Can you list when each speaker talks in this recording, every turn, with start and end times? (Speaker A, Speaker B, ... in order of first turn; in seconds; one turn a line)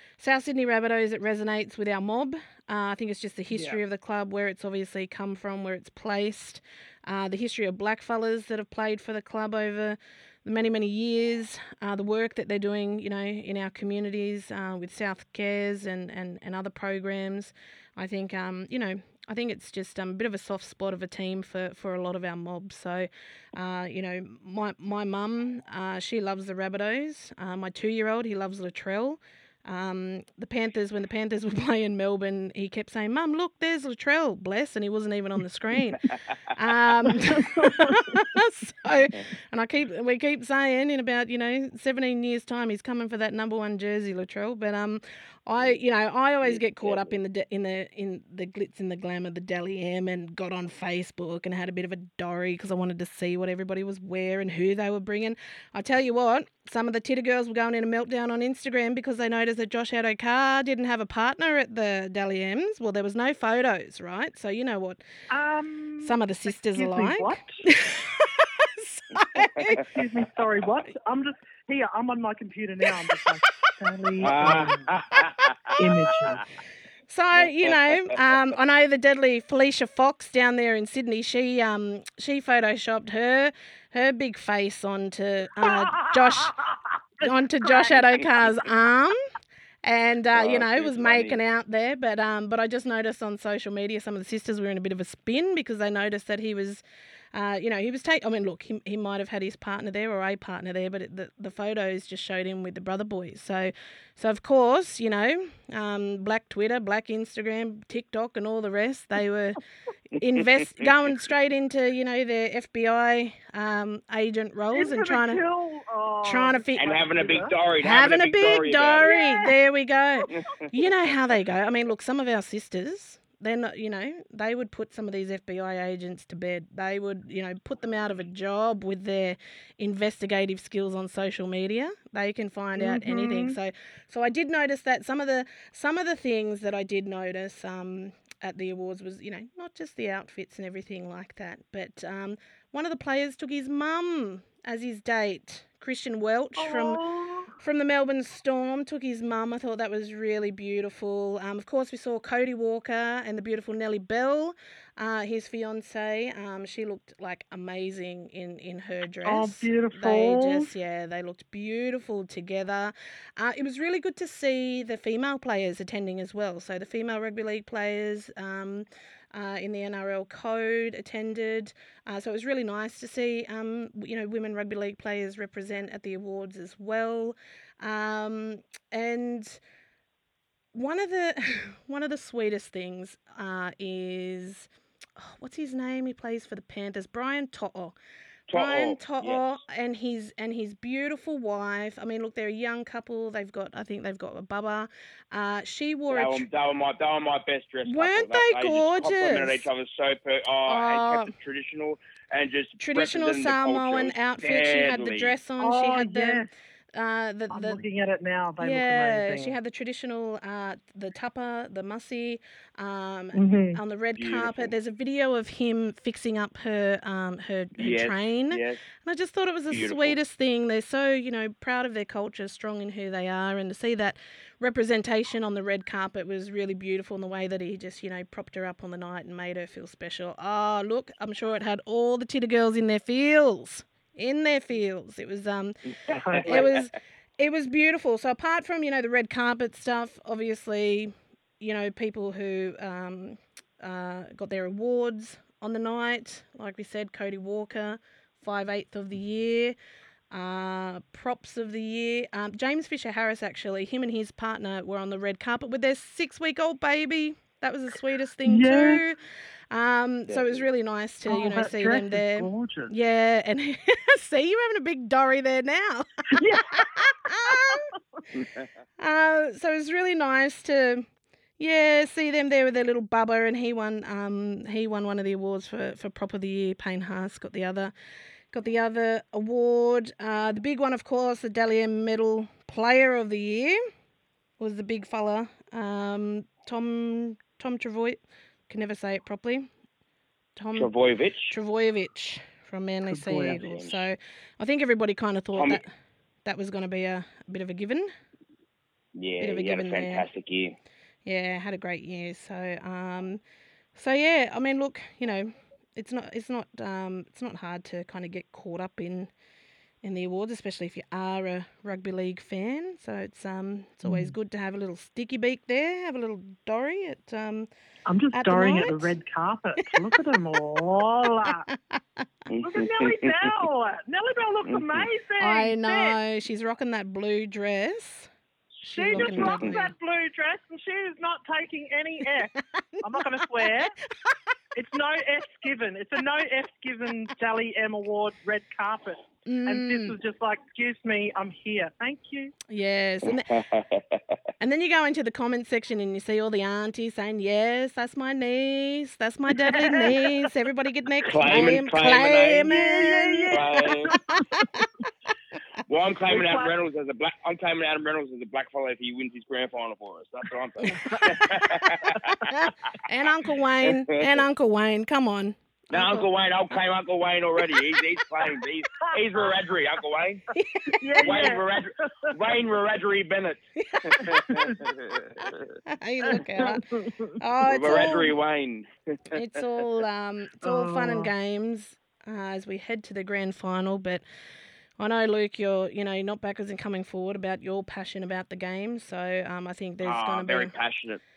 Speaker A: 0.2-65.0
Speaker B: 3.5-3.8
Speaker B: 37.4-38.1
Speaker C: 46.5-47.2
Speaker B: 65.3-66.2
Speaker A: 66.0-69.8
Speaker B: 66.7-67.6
Speaker C: 69.4-69.8
Speaker B: 69.8-75.0
Speaker C: 74.2-75.8
Speaker A: 75.2-75.5
Speaker B: 75.8-76.5
Speaker A: 77.1-86.6
Speaker B: 85.6-88.0
Speaker A: 87.2-89.2
Speaker A: 89.8-109.6
Speaker C: 90.3-91.4
Speaker A: 110.1-115.4
Speaker B: 114.7-117.5
Speaker A: 116.2-117.0
Speaker C: 116.8-119.2
Speaker A: 117.8-147.0
Speaker B: 119.0-119.5
Speaker B: 132.8-133.6
Speaker B: 146.6-147.5
Speaker A: 147.6-179.6
Speaker B: 159.2-160.7
Speaker A: 180.7-188.0
Speaker C: 188.5-189.5
Speaker A: 188.5-196.4
Speaker C: 196.1-205.3
Speaker A: 197.9-199.7
Speaker A: 200.7-201.3
Speaker A: 202.8-207.8
Speaker B: 205.6-206.5
Speaker B: 207.5-209.6
Speaker A: 208.6-235.8
Speaker B: 213.3-213.8
Speaker C: 214.2-214.7
Speaker C: 217.8-218.8
Speaker C: 219.7-220.2
Speaker C: 236.1-236.8
Speaker B: 236.1-236.7
Speaker A: 236.4-249.8
Speaker A: 250.3-267.9
Speaker B: 258.5-259.0
Speaker C: 260.3-260.6
Speaker B: 261.2-262.9
Speaker B: 266.3-267.9
Speaker C: 268.3-268.7
Speaker A: 269.0-271.1
Speaker A: 271.6-277.9
Speaker A: 278.5-283.8
Speaker A: 284.6-289.7
Speaker A: 290.6-290.9
Speaker C: 290.8-291.6
Speaker A: 291.5-295.9
Speaker B: 293.1-293.6
Speaker C: 293.5-294.0
Speaker A: 296.4-298.1
Speaker C: 299.1-300.8
Speaker A: 299.4-300.3
Speaker A: 301.2-303.4
Speaker A: 303.9-309.3
Speaker A: 310.0-317.7
Speaker B: 314.0-314.3
Speaker B: 318.1-321.7
Speaker A: 318.3-319.1
Speaker A: 321.7-322.3
Speaker C: 322.5-323.3
Speaker B: 322.6-326.2
Speaker A: 325.4-328.3
Speaker A: 328.8-329.9
Speaker B: 328.9-333.9
Speaker C: 329.1-329.8
Speaker A: 332.8-334.4
Speaker B: 334.8-342.5
Speaker A: 339.5-340.2
Speaker A: 342.7-343.5
Speaker C: 343.2-344.4
Speaker A: 344.6-354.9
Speaker B: 349.7-350.1
Speaker C: 351.3-352.7
Speaker B: 352.7-354.7
Speaker C: 353.5-354.1
Speaker C: 355.9-362.4
Speaker B: 356.3-356.7
Speaker A: 360.9-361.9
Speaker B: 360.9-361.4
Speaker B: 362.1-362.3
Speaker A: 362.5-366.3
Speaker C: 363.8-364.3
Speaker C: 365.9-370.4
Speaker B: 369.0-369.4
Speaker A: 370.6-371.5
Speaker B: 370.9-371.7
Speaker C: 371.2-375.8
Speaker A: 373.8-374.7
Speaker A: 375.4-376.9
Speaker B: 376.3-377.4
Speaker A: 377.4-378.4
Speaker C: 377.6-379.4
Speaker A: 379.3-384.2
Speaker B: 380.6-381.3
Speaker A: 385.0-390.7
Speaker C: 390.0-391.2